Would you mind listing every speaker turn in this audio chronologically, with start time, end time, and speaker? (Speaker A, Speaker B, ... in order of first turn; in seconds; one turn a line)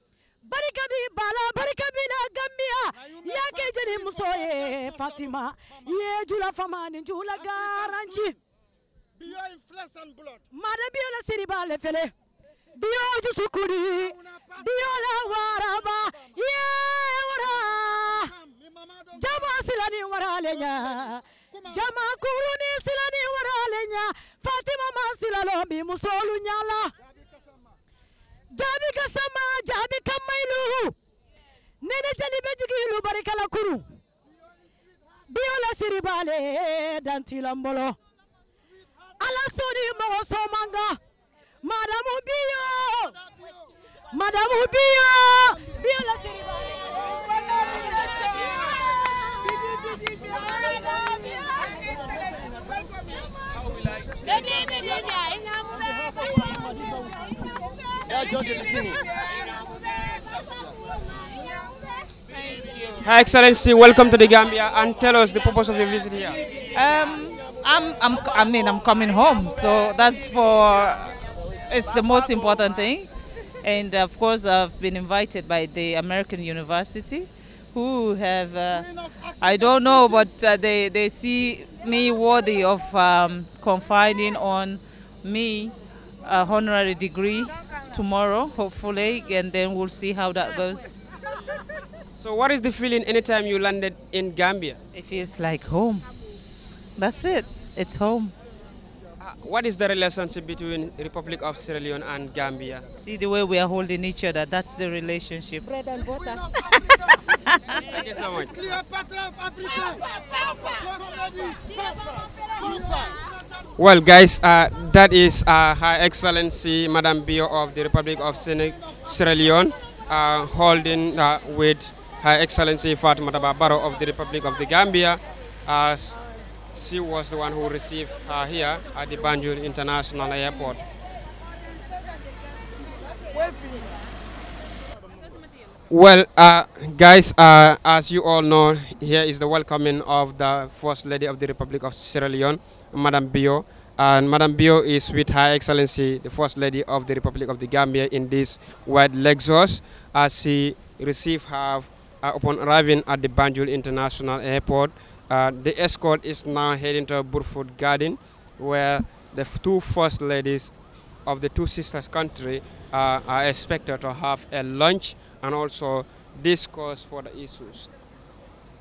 Speaker A: 0.4-8.3
Speaker B: 3.0-6.0
Speaker B: 9.2-10.4
Speaker A: 10.5-12.1
Speaker A: 12.8-18.2
Speaker B: 14.3-15.1
Speaker B: 18.4-19.4
Speaker A: 19.2-21.2
Speaker B: 21.5-21.9
Speaker A: 21.7-26.9
Speaker B: 27.0-27.8
Speaker A: 28.5-30.9
Speaker A: 31.8-33.8
Speaker A: 35.3-38.0
Speaker A: 39.2-41.0
Speaker A: 41.6-43.2
Speaker A: 44.1-47.2
Speaker C: 63.0-66.4
Speaker D: 66.7-73.1
Speaker D: 73.6-85.7
Speaker D: 86.2-91.0
Speaker C: 92.2-94.8
Speaker D: 94.9-96.0
Speaker D: 97.0-98.3
Speaker C: 99.2-102.8
Speaker D: 103.0-105.8
Speaker D: 106.5-107.0
Speaker C: 107.7-108.5
Speaker B: 108.7-109.2
Speaker B: 110.8-112.0
Speaker B: 112.6-113.2
Speaker C: 113.8-126.2
Speaker C: 126.7-130.8
Speaker C: 135.9-167.9